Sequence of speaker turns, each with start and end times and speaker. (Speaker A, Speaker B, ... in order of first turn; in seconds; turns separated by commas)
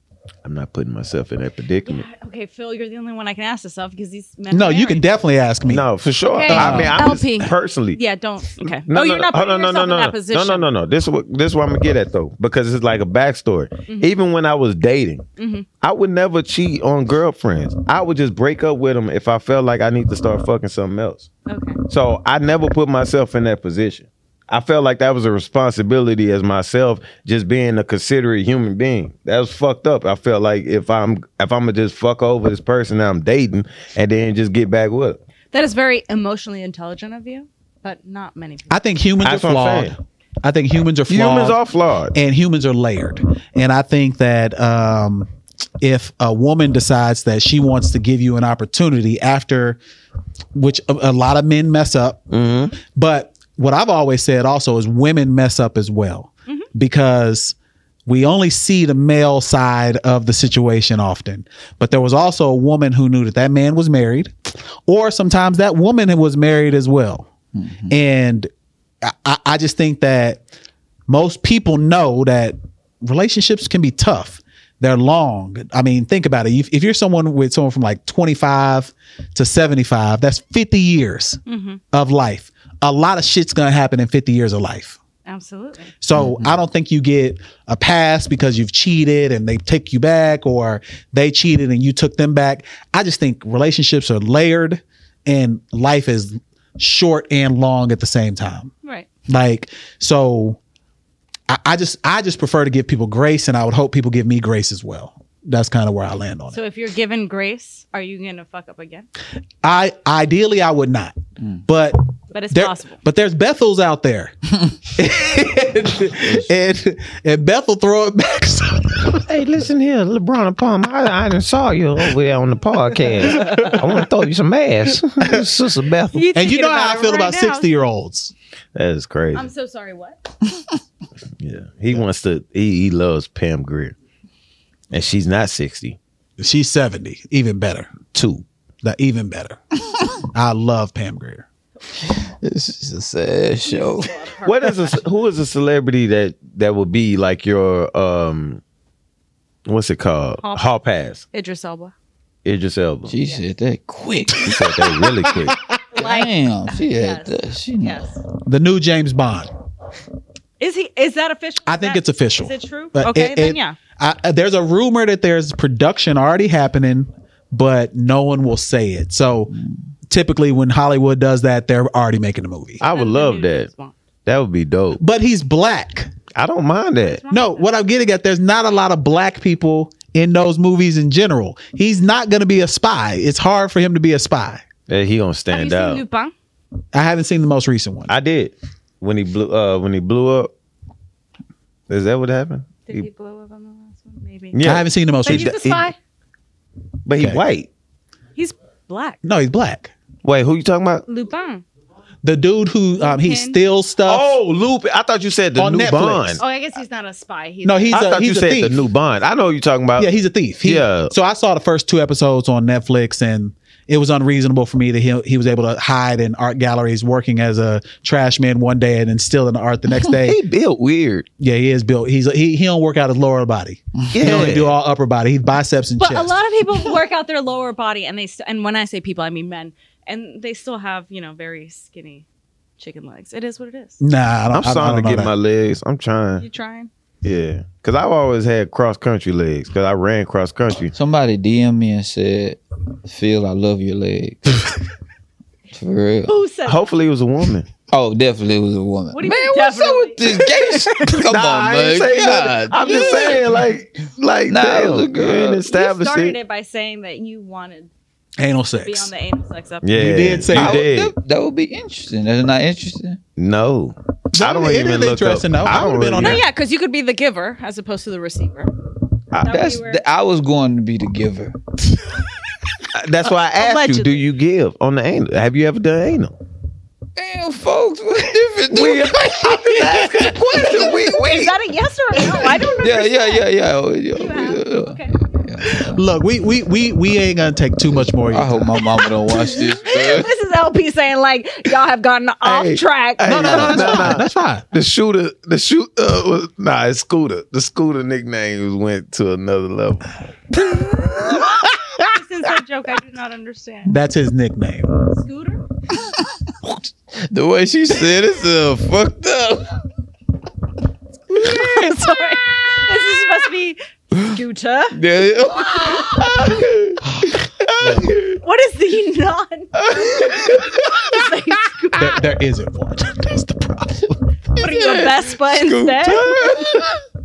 Speaker A: 0.4-2.1, Speaker B: 1.8-5.0, Speaker C: 4.5-5.8, Speaker A: 5.7-8.0, Speaker B: 6.3-10.7, Speaker C: 6.5-7.1, Speaker A: 8.6-15.2, Speaker B: 13.9-14.1, Speaker B: 15.4-15.7, Speaker A: 15.8-21.3, Speaker B: 21.5-21.8, Speaker A: 21.9-35.2, Speaker B: 35.5-38.8, Speaker C: 38.7-41.6, Speaker A: 39.2-39.9, Speaker A: 41.1-42.1, Speaker C: 42.1-45.3, Speaker C: 45.8-49.8, Speaker C: 50.5-52.2, Speaker A: 52.3-52.7, Speaker C: 52.8-67.3, Speaker D: 67.5-67.9, Speaker C: 67.9-68.5, Speaker C: 69.0-70.4, Speaker C: 71.1-81.4, Speaker B: 81.5-81.8, Speaker C: 81.9-85.0, Speaker B: 85.2-85.9, Speaker C: 86.0-98.7, Speaker D: 86.1-86.5, Speaker C: 99.3-100.6, Speaker C: 101.5-106.6, Speaker B: 106.5-109.1, Speaker C: 109.6-112.0, Speaker B: 112.3-113.0, Speaker C: 112.5-119.2, Speaker A: 119.2-126.2, Speaker B: 123.2-123.7, Speaker C: 123.4-123.8, Speaker C: 125.2-125.5, Speaker B: 126.1-127.7, Speaker C: 126.3-128.3, Speaker A: 128.7-129.5, Speaker B: 129.3-130.2, Speaker A: 131.4-133.9, Speaker A: 134.9-136.0, Speaker C: 136.4-138.1, Speaker A: 138.1-138.4, Speaker C: 138.8-139.6, Speaker C: 140.3-141.4, Speaker D: 142.0-144.1, Speaker B: 143.6-145.0, Speaker A: 144.4-148.6, Speaker A: 149.7-151.2, Speaker B: 150.4-150.7, Speaker B: 151.3-151.9, Speaker A: 152.4-153.1, Speaker D: 153.1-154.6, Speaker A: 154.4-155.6, Speaker C: 155.3-155.8, Speaker B: 155.9-158.2, Speaker D: 155.9-158.0, Speaker C: 158.4-159.5, Speaker B: 160.6-163.8, Speaker C: 161.7-169.5, Speaker C: 170.1-172.8, Speaker A: 172.8-173.7, Speaker B: 172.8-174.0, Speaker A: 174.2-175.0, Speaker C: 175.0-176.1, Speaker A: 176.3-177.2, Speaker B: 177.0-177.8, Speaker C: 177.3-184.6, Speaker A: 184.9-186.0, Speaker B: 185.5-186.3, Speaker C: 186.9-188.1, Speaker A: 188.1-190.5, Speaker A: 191.9-193.0, Speaker B: 192.8-194.6, Speaker A: 194.5-195.9, Speaker C: 194.6-195.7, Speaker B: 195.2-195.9, Speaker A: 197.1-197.7, Speaker B: 198.3-199.2, Speaker C: 199.2-199.9, Speaker A: 200.2-201.0, Speaker B: 201.1-201.6, Speaker C: 202.2-204.3, Speaker B: 203.0-203.6, Speaker A: 204.0-206.4, Speaker C: 205.6-206.4, Speaker B: 206.4-208.0, Speaker C: 207.6-208.8, Speaker A: 207.9-210.1, Speaker C: 210.0-220.4, Speaker A: 210.6-211.1, Speaker A: 220.1-221.3, Speaker C: 221.4-226.4, Speaker A: 224.1-224.7, Speaker B: 226.0-232.2, Speaker B: 232.8-234.0, Speaker C: 234.0-235.3, Speaker A: 234.5-236.4, Speaker B: 236.4-236.9, Speaker A: 237.2-240.9, Speaker D: 240.9-244.7, Speaker D: 245.7-246.3, Speaker B: 246.3-246.9, Speaker A: 246.7-247.7, Speaker D: 247.9-253.7, Speaker B: 249.1-250.5, Speaker C: 251.1-252.0, Speaker A: 251.6-256.4, Speaker B: 252.9-253.4, Speaker D: 254.5-255.6, Speaker B: 255.7-257.9, Speaker C: 258.4-259.1, Speaker B: 258.8-259.9, Speaker A: 259.8-261.1, Speaker C: 259.9-260.8, Speaker D: 260.5-263.2, Speaker A: 263.4-266.4, Speaker C: 264.3-266.4, Speaker B: 266.2-268.7, Speaker B: 269.4-270.0, Speaker D: 269.5-271.6, Speaker A: 272.9-276.3, Speaker B: 273.6-274.2, Speaker D: 277.1-280.7, Speaker A: 278.7-281.6, Speaker B: 280.3-283.4, Speaker D: 282.8-286.0, Speaker B: 284.1-285.2, Speaker C: 285.8-288.8, Speaker D: 287.9-290.3, Speaker B: 289.8-294.0, Speaker A: 292.4-301.7, Speaker C: 293.2-294.6, Speaker B: 302.1-303.9, Speaker C: 303.9-304.9, Speaker B: 305.1-305.6, Speaker D: 306.6-309.8, Speaker B: 311.4-315.0, Speaker D: 311.4-311.9, Speaker D: 314.9-316.9, Speaker B: 315.6-316.1, Speaker A: 316.1-316.8, Speaker C: 317.1-318.1, Speaker A: 317.8-318.2, Speaker B: 318.4-322.2, Speaker D: 319.9-320.5, Speaker C: 321.9-324.2, Speaker D: 324.5-326.9, Speaker B: 324.6-326.7, Speaker A: 326.4-326.9